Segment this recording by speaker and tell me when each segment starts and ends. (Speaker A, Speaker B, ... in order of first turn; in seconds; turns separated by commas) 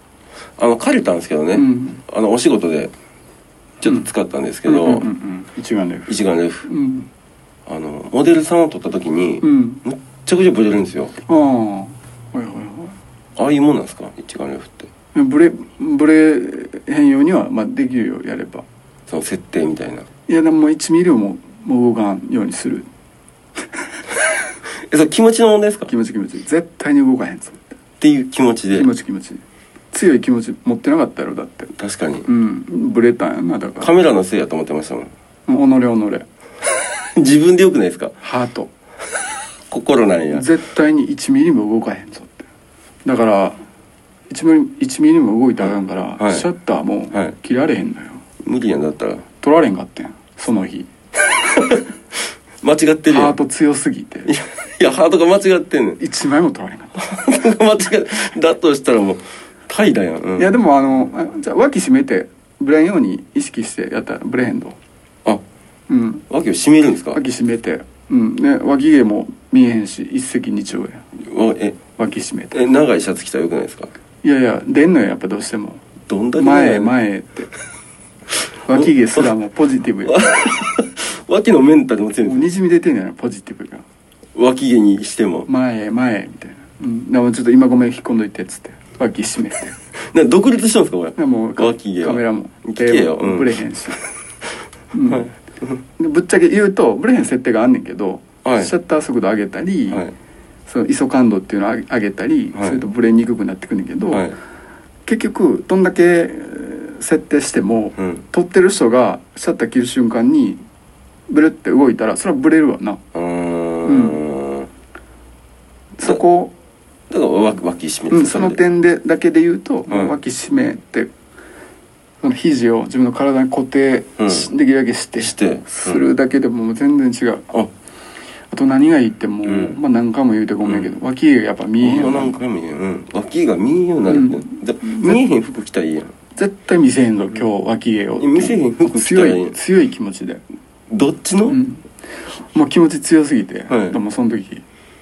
Speaker A: 0.6-2.9, Speaker B: 1.5-2.0, Speaker A: 3.8-5.1, Speaker B: 4.7-6.1, Speaker A: 6.1-6.7, Speaker B: 6.7-7.1, Speaker A: 7.7-11.1, Speaker B: 9.4-9.8, Speaker B: 11.2-13.0, Speaker A: 13.3-14.9, Speaker B: 15.1-18.6, Speaker A: 19.1-20.1, Speaker B: 20.3-22.9, Speaker A: 24.9-25.9, Speaker B: 25.9-27.7, Speaker A: 28.0-28.9, Speaker B: 28.7-31.7, Speaker A: 31.8-32.3, Speaker B: 32.3-33.9, Speaker A: 33.8-35.1, Speaker B: 35.5-36.2, Speaker A: 36.9-38.1, Speaker B: 38.2-38.7, Speaker A: 39.7-40.5, Speaker B: 40.3-42.4, Speaker B: 43.0-43.6, Speaker B: 44.3-48.2, Speaker A: 45.6-46.5, Speaker A: 48.4-49.2, Speaker B: 49.4-50.9, Speaker A: 51.3-51.9, Speaker A: 52.6-53.3, Speaker B: 53.1-54.3, Speaker A: 54.3-56.0, Speaker B: 56.0-57.0, Speaker A: 57.0-60.6, Speaker B: 60.4-64.8, Speaker B: 65.9-66.2, Speaker A: 66.3-67.2, Speaker B: 67.1-71.0, Speaker A: 71.2-71.8, Speaker B: 72.0-72.6, Speaker A: 72.5-73.9, Speaker B: 74.2-75.8, Speaker A: 76.1-76.9, Speaker B: 76.3-77.5, Speaker B: 78.7-80.2, Speaker A: 78.8-79.3, Speaker A: 80.0-82.5, Speaker B: 82.2-83.8, Speaker A: 84.3-85.5, Speaker B: 85.5-89.7, Speaker A: 90.1-93.5, Speaker B: 91.2-94.0, Speaker B: 94.9-95.3, Speaker A: 95.1-95.7, Speaker B: 96.0-100.0, Speaker A: 98.4-98.7, Speaker B: 100.7-104.3, Speaker B: 105.0-110.6, Speaker A: 108.0-108.2, Speaker B: 111.3-113.0, Speaker A: 113.1-114.7, Speaker B: 113.8-114.2, Speaker B: 116.0-116.5, Speaker A: 117.1-118.6, Speaker B: 118.1-121.1, Speaker A: 119.9-120.1, Speaker B: 122.2-127.5, Speaker A: 124.2-124.5, Speaker A: 125.2-126.0, Speaker B: 128.5-132.4, Speaker A: 129.4-129.8, Speaker A: 130.6-130.9, Speaker A: 131.8-136.1, Speaker B: 134.1-135.2, Speaker B: 136.3-140.4, Speaker A: 138.2-139.6, Speaker A: 140.9-141.6, Speaker B: 141.5-141.8, Speaker B: 142.5-144.6, Speaker A: 143.7-143.9